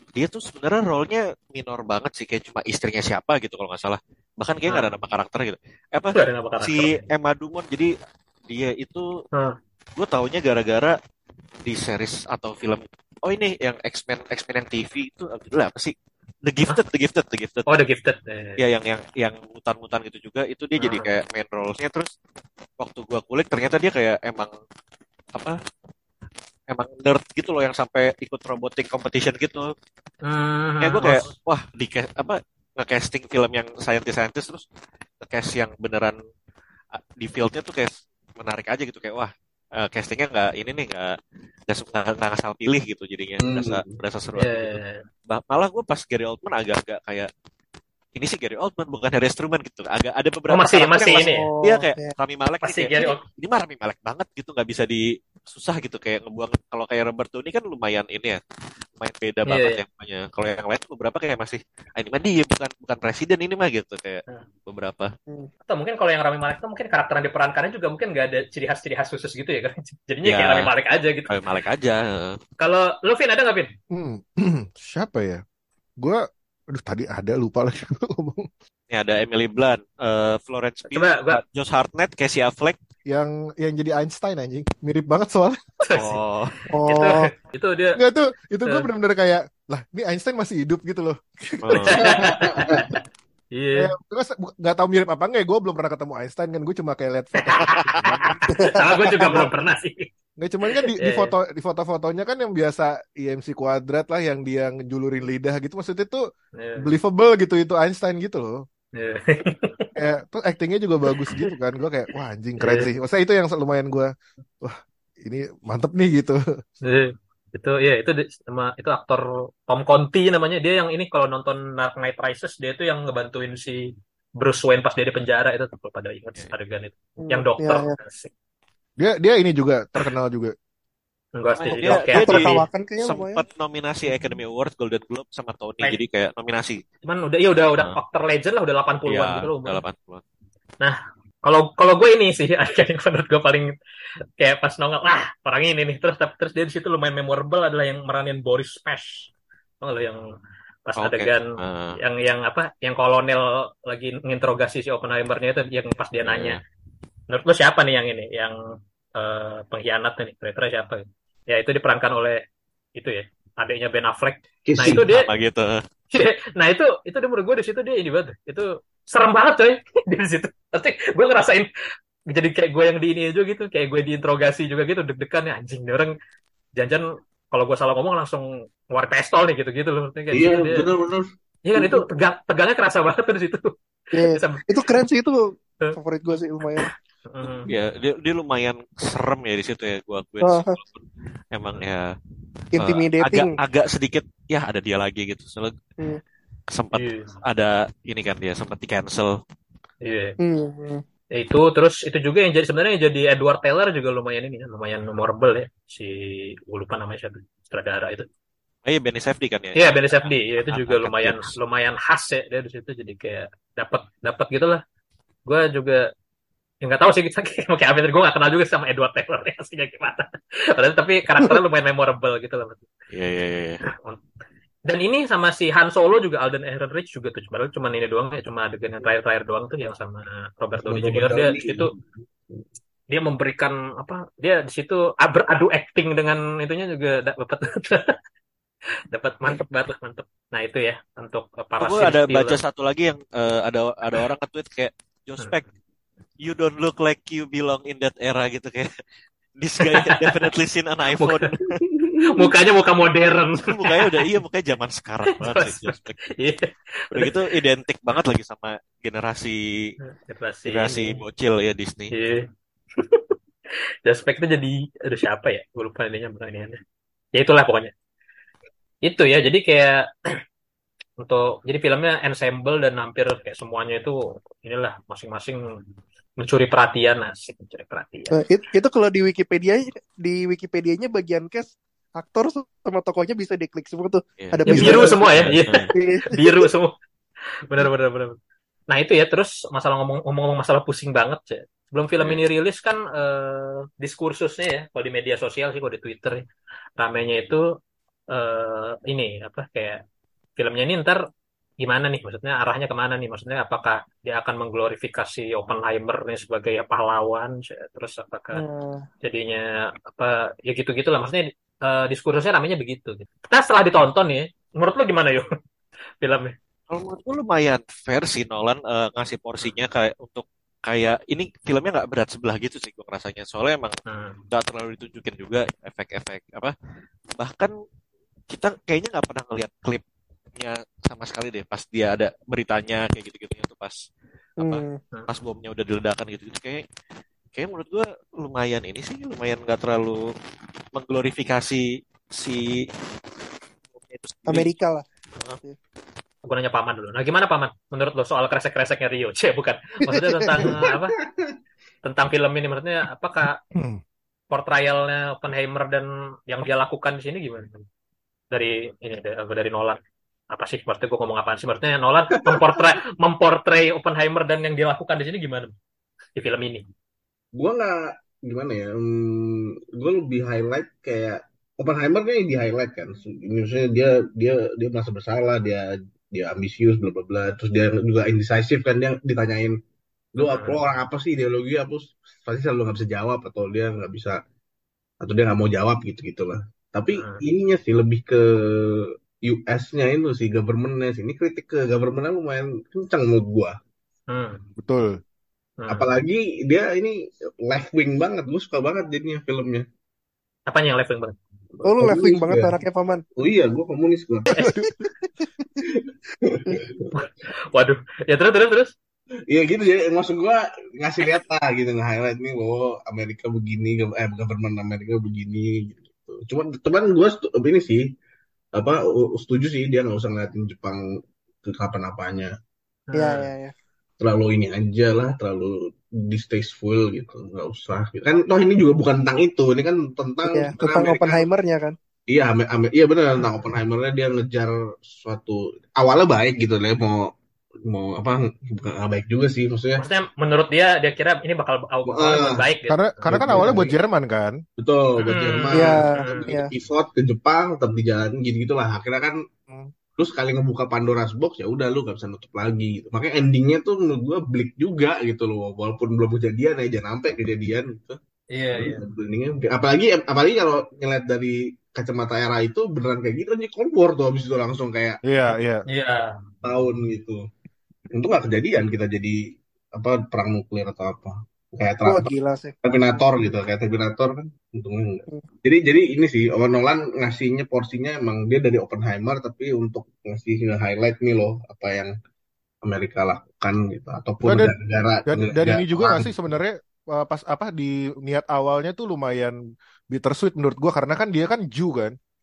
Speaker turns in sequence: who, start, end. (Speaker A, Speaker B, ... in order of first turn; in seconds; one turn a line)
Speaker A: 0.2-7.9
Speaker B: 6.2-7.0
Speaker A: 8.5-9.1
Speaker A: 10.0-10.9
Speaker A: 11.7-15.9
Speaker A: 16.5-17.7
Speaker B: 17.7-18.6
Speaker A: 18.6-22.1
Speaker B: 20.8-21.1
Speaker A: 22.8-24.5
Speaker A: 26.7-29.7
Speaker B: 30.2-31.3
Speaker A: 30.8-34.6
Speaker A: 35.2-36.2
Speaker A: 37.0-41.2
Speaker A: 41.7-44.8
Speaker C: 43.4-44.0
Speaker B: 44.4-45.0
Speaker A: 45.3-47.3
Speaker A: 48.1-58.4
Speaker B: 50.5-51.5
Speaker D: 51.1-52.1
Speaker B: 52.6-53.2
Speaker A: 59.0-65.1
Speaker B: 59.5-59.8
Speaker B: 65.7-71.3
Speaker A: 70.2-70.7
Speaker A: 71.3-72.4
Speaker B: 72.6-73.7
Speaker E: 73.9-75.4
Speaker E: 76.0-78.5
Speaker A: 78.9-82.8
Speaker B: 80.9-81.4
Speaker E: 83.1-85.6
Speaker B: 85.8-86.2
Speaker A: 86.0-86.5
Speaker D: 86.7-87.3
Speaker B: 86.8-88.0
Speaker E: 88.0-92.6
Speaker A: 91.6-92.0
Speaker B: 91.7-93.0
Speaker C: 92.0-92.9
Speaker B: 93.5-93.9
Speaker E: 93.8-99.5
Speaker B: 97.4-100.1
Speaker A: 97.6-98.1
Speaker D: 98.5-98.8
Speaker E: 100.4-106.2
Speaker B: 100.7-101.3
Speaker B: 106.6-106.9
Speaker E: 106.8-108.6
Speaker B: 109.0-109.9
Speaker E: 110.0-116.4
Speaker B: 112.6-112.9
Speaker B: 116.8-123.8
Speaker B: 124.4-128.3
Speaker D: 127.2-128.0
Speaker E: 129.0-130.5
Speaker B: 131.4-132.6
Speaker A: 131.6-136.8
Speaker D: 131.9-133.4
Speaker B: 137.1-139.8
Speaker A: 139.1-140.2
Speaker B: 140.8-143.7
Speaker B: 144.4-149.3
Speaker B: 149.8-150.2
Speaker B: 150.9-156.6
Speaker A: 151.0-152.0
Speaker A: 156.2-156.6
Speaker B: 157.3-158.6
Speaker B: 159.2-162.4
Speaker B: 163.0-165.3
Speaker C: 164.7-165.0
Speaker A: 164.8-165.8
Speaker B: 166.1-171.7
Speaker B: 172.3-176.1
Speaker B: 176.8-180.9
Speaker C: 180.3-181.3
Speaker B: 181.7-184.8
Speaker D: 184.1-185.4
Speaker D: 185.9-186.9
Speaker B: 186.8-187.7
Speaker A: 187.4-192.1
Speaker D: 190.4-190.8
Speaker D: 192.7-193.6
Speaker A: 192.8-195.7
Speaker A: 196.7-199.3
Speaker B: 196.9-197.3
Speaker B: 200.0-200.4
Speaker D: 200.4-201.0
Speaker B: 201.4-208.3
Speaker A: 208.9-211.5
Speaker B: 209.8-214.8
Speaker B: 215.5-216.0
Speaker B: 216.8-222.8
Speaker A: 223.1-223.8
Speaker B: 223.9-224.2
Speaker B: 224.9-231.9
Speaker C: 230.8-231.9
Speaker B: 233.1-238.2
Speaker B: 239.1-242.6
Speaker A: 241.8-245.7
Speaker A: 246.4-248.9
Speaker A: 249.6-251.7
Speaker B: 249.8-250.5
Speaker B: 251.2-251.5
Speaker C: 251.9-252.4
Speaker B: 252.3-254.2
Speaker A: 253.6-256.2
Speaker B: 255.4-257.4
Speaker A: 257.1-259.6
Speaker B: 260.1-261.2
Speaker A: 260.7-262.1
Speaker B: 262.1-262.4
Speaker B: 263.0-263.3
Speaker B: 264.1-266.8
Speaker B: 267.4-267.9
Speaker B: 269.1-270.1
Speaker B: 271.2-275.6
Speaker B: 276.4-278.4
Speaker D: 278.3-285.4
Speaker A: 284.4-285.9
Speaker B: 284.7-286.9
Speaker D: 285.9-286.6
Speaker B: 287.7-288.4
Speaker B: 288.9-296.4
Speaker B: 297.0-297.6
Speaker B: 298.3-300.0
Speaker B: 300.6-301.2
Speaker B: 301.8-308.6
Speaker D: 308.5-309.1
Speaker B: 309.2-315.5
Speaker B: 316.2-316.6
Speaker A: 316.9-323.9
Speaker B: 324.1-324.4
Speaker A: 324.5-326.7
Speaker A: 327.4-327.7
Speaker A: 328.5-330.0
Speaker A: 330.6-334.0
Speaker D: 334.6-335.0
Speaker A: 334.6-336.8
Speaker A: 337.5-340.2
Speaker A: 340.9-342.9
Speaker A: 343.9-344.7
Speaker D: 344.5-345.1
Speaker B: 346.5-351.1
Speaker D: 350.1-350.6
Speaker C: 350.6-351.5
Speaker B: 352.0-353.6
Speaker E: 353.7-354.0
Speaker B: 354.5-357.8
Speaker B: 358.5-360.0
Speaker B: 360.5-365.7
Speaker B: 366.4-366.8
Speaker C: 367.6-379.8
Speaker C: 380.3-384.4
Speaker B: 380.4-380.8
Speaker C: 385.2-393.8
Speaker B: 387.1-387.4
Speaker B: 394.3-394.6
Speaker E: 394.8-395.2
Speaker B: 395.8-396.1
Speaker C: 395.9-399.9
Speaker B: 400.7-401.4
Speaker C: 401.8-402.8
Speaker D: 401.8-403.2
Speaker C: 403.4-404.6
Speaker E: 404.6-405.1
Speaker C: 405.8-407.1
Speaker B: 407.1-408.9
Speaker C: 409.5-418.0
Speaker C: 418.8-421.0
Speaker C: 421.6-422.5
Speaker B: 423.1-423.5
Speaker D: 423.1-423.7
Speaker C: 424.2-431.4
Speaker D: 430.5-431.9
Speaker C: 432.3-437.3
Speaker C: 437.9-440.1
Speaker B: 440.0-443.1
Speaker C: 442.1-442.6
Speaker E: 442.9-444.6
Speaker C: 443.3-443.9
Speaker C: 444.8-449.4
Speaker B: 445.3-446.5
Speaker D: 445.7-446.7
Speaker C: 450.2-458.2
Speaker B: 458.5-459.0
Speaker C: 458.8-465.2
Speaker E: 465.2-465.9
Speaker B: 465.9-466.3
Speaker C: 466.6-467.4
Speaker C: 468.1-472.3
Speaker D: 472.1-472.7
Speaker C: 472.8-482.1
Speaker C: 482.8-486.3
Speaker E: 484.4-484.7
Speaker E: 485.3-489.6
Speaker E: 490.1-492.1